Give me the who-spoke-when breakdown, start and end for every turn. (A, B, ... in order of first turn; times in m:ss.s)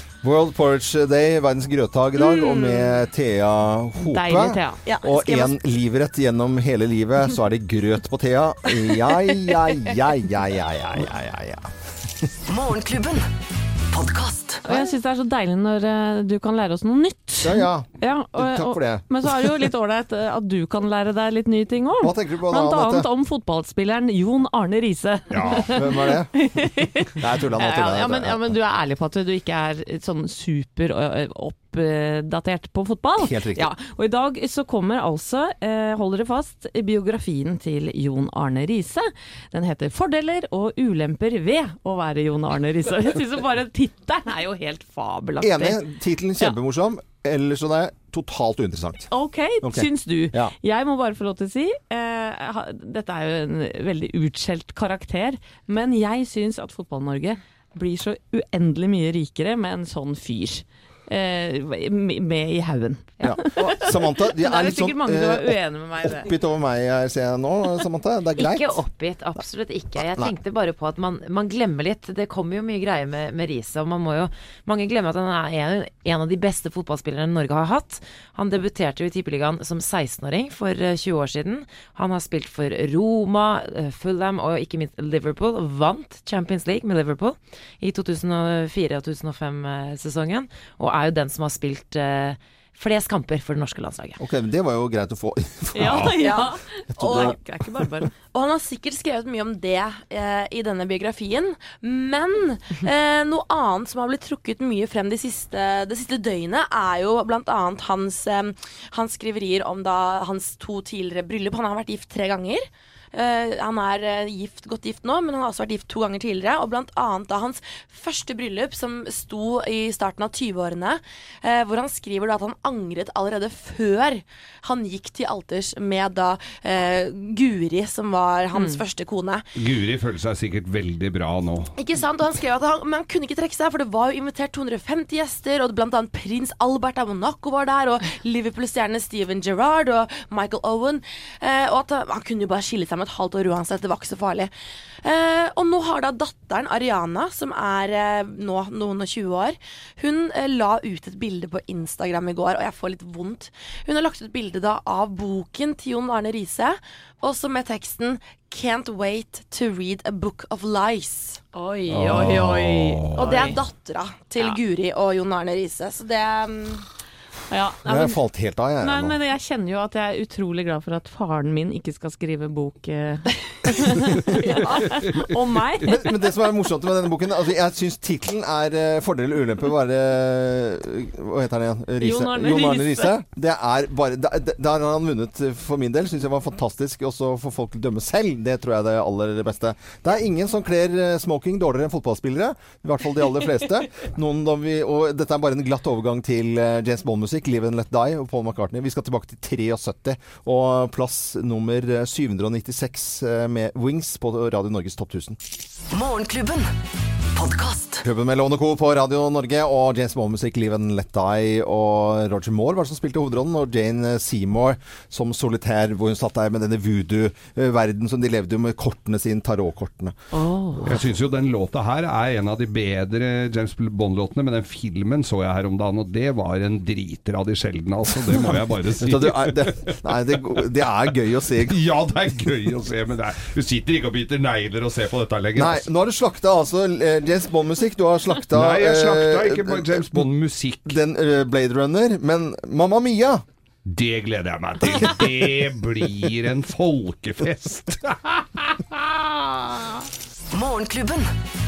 0:00.2-0:12.3 A
0:02.2-0:02.9 B
0:04.0-0:04.8 C
0:04.8-0:05.5 B
0:12.5-0:13.3 D
0:13.9-0:14.6 D
0:14.6-0:45.8 C
0:14.7-0:14.9 A
0:17.4-0:19.7 A
0:22.0-0:23.0 A
0:25.3-0:25.7 E
0:25.7-0:26.4 A
0:27.2-0:28.4 A
0:33.2-0:33.7 A
0:45.4-0:49.1 A
0:49.1-1:06.3 C
0:49.6-0:50.5 A
1:03.2-1:08.8 A
1:08.4-1:34.2 F
1:34.2-1:36.2 A
1:35.7-1:38.1 C
1:35.8-1:36.1 E
1:36.2-1:37.4 B
1:36.9-1:37.4 A
1:38.3-2:09.4 B
2:08.6-2:08.8 C
2:09.6-2:11.7 E
2:11.8-2:24.5 B
2:25.0-2:41.4 B
2:41.5-2:43.6 C
2:41.9-2:43.5 A
2:43.1-2:46.8 B
2:47.5-2:48.2 C
2:47.8-2:49.2 A
2:48.8-2:55.9 C
2:54.7-2:55.9 E
2:55.8-3:25.4 A
3:02.0-3:03.2 C
3:25.9-3:26.7 D
3:27.3-3:28.0 D
3:28.0-3:40.2 A
3:40.3-3:40.9 C
3:40.8-3:50.4 E
3:48.2-3:51.8 A
3:51.6-3:55.9 E
3:55.6-4:00.3 A
3:58.5-4:01.0 E
4:00.8-4:03.4 A
4:03.8-4:09.1 E
4:04.9-4:05.3 A
4:10.5-4:11.3 D